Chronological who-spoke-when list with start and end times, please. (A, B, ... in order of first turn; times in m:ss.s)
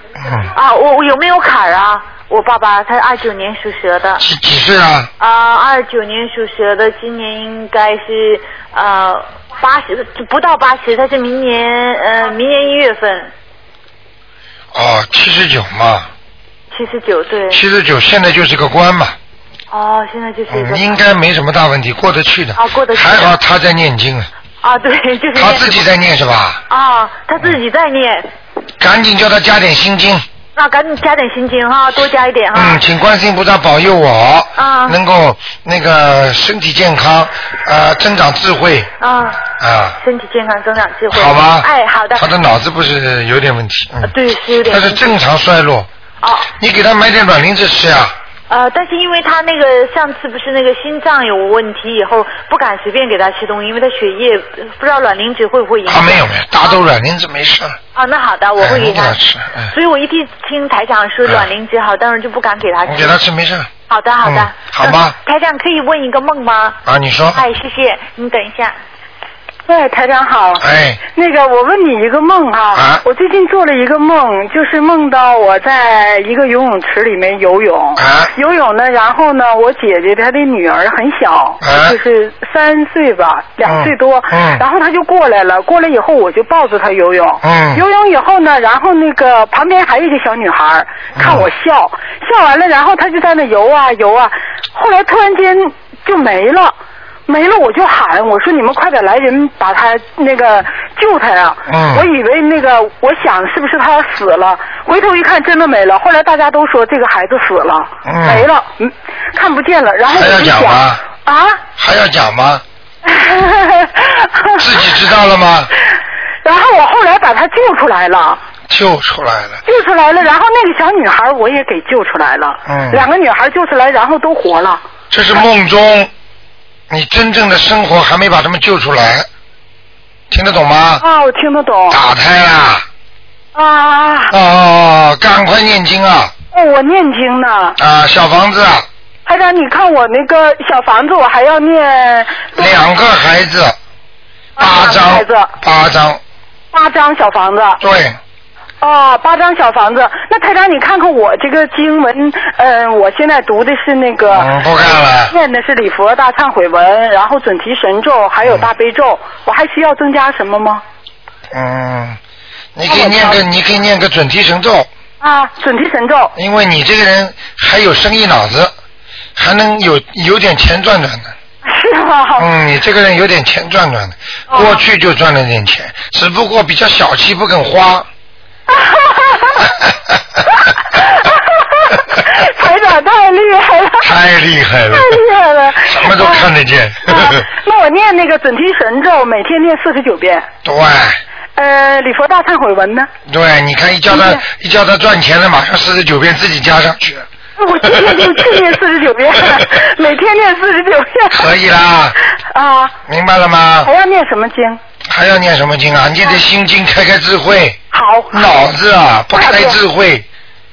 0:00.2-0:00.5 A
0:00.5-0:04.2 B
0:04.2-0:05.1 A
0:05.2-0:13.3 B
0:14.7-0:16.1 A
0:16.7-0:17.6 B
0:17.5-0:19.2 A
0:19.7-0:21.0 B
0:20.5-0:24.3 A
0:22.6-0:23.4 B
0:24.6-0:25.9 B
0:25.4-0:26.6 A
0:26.7-0:28.3 B
0:28.8-0:30.2 A
0:30.6-0:32.8 B
0:32.5-0:38.9 A
0:34.6-0:35.0 B
0:39.0-0:39.5 B
0:39.6-0:40.0 A
0:40.0-0:42.3 B
0:41.1-0:45.9 A
0:44.0-0:45.1 B
0:46.2-0:46.5 B
0:46.6-0:48.2 A
0:48.5-0:56.8 B
0:55.9-0:57.8 A
0:58.0-1:03.2 B
0:58.6-0:59.7 A
1:01.2-1:01.5 A
1:02.8-1:03.7 A
1:03.9-1:06.8 B
1:04.2-1:05.2 A
1:06.9-1:07.4 A
1:07.3-1:08.8 B
1:09.7-1:36.8 C
1:10.6-1:11.0 A
1:12.8-1:13.0 A
1:18.0-1:18.3 A
1:21.6-1:22.0 A
1:23.6-1:24.6 A
1:27.4-1:27.8 A
1:31.2-1:31.5 A
1:37.3-1:51.6 C
1:41.7-1:42.1 A
1:48.0-1:48.5 A
1:50.1-1:51.0 A
1:51.8-1:52.6 A
1:53.0-1:54.7 C
1:54.6-1:55.7 A
1:56.4-1:58.4 C
1:58.7-1:59.6 A
1:59.7-2:04.8 C
2:02.7-2:03.1 A
2:05.1-2:06.1 A
2:06.9-2:09.3 A
2:10.3-2:11.0 A
2:11.0-2:12.0 C
2:11.9-2:12.9 A
2:13.6-2:14.4 C
2:14.3-2:16.3 A
2:16.5-2:17.8 C
2:17.8-2:18.9 A
2:19.3-2:22.8 C
2:22.6-2:23.8 A
2:24.6-2:25.5 C
2:24.6-2:26.2 A
2:26.7-2:27.8 C
2:27.8-2:28.2 A
2:28.8-2:34.5 C
2:34.3-2:35.3 A
2:35.3-2:40.8 C
2:41.5-2:42.2 A
2:42.8-2:44.9 A
2:42.9-2:43.4 C
2:45.2-2:46.3 C
2:46.4-2:48.8 A
2:49.4-2:51.3 A
2:51.6-2:52.5 C
2:52.4-2:58.1 A
2:54.5-2:54.8 C
2:58.7-2:59.6 C
3:00.9-3:04.1 C
3:04.0-3:05.2 A
3:04.9-3:06.5 C
3:05.8-3:07.4 A
3:07.1-3:10.5 C
3:10.6-3:11.2 A
3:11.6-3:13.1 C
3:13.3-3:17.3 A
3:14.1-3:14.4 C
3:17.6-3:21.5 C
3:17.9-3:18.6 A
3:21.3-3:22.2 A
3:22.5-3:22.9 C
3:23.1-3:23.9 A
3:23.8-3:24.8 C
3:25.1-3:27.8 A
3:27.9-3:28.6 C
3:28.3-3:30.3 A
3:29.3-3:29.8 C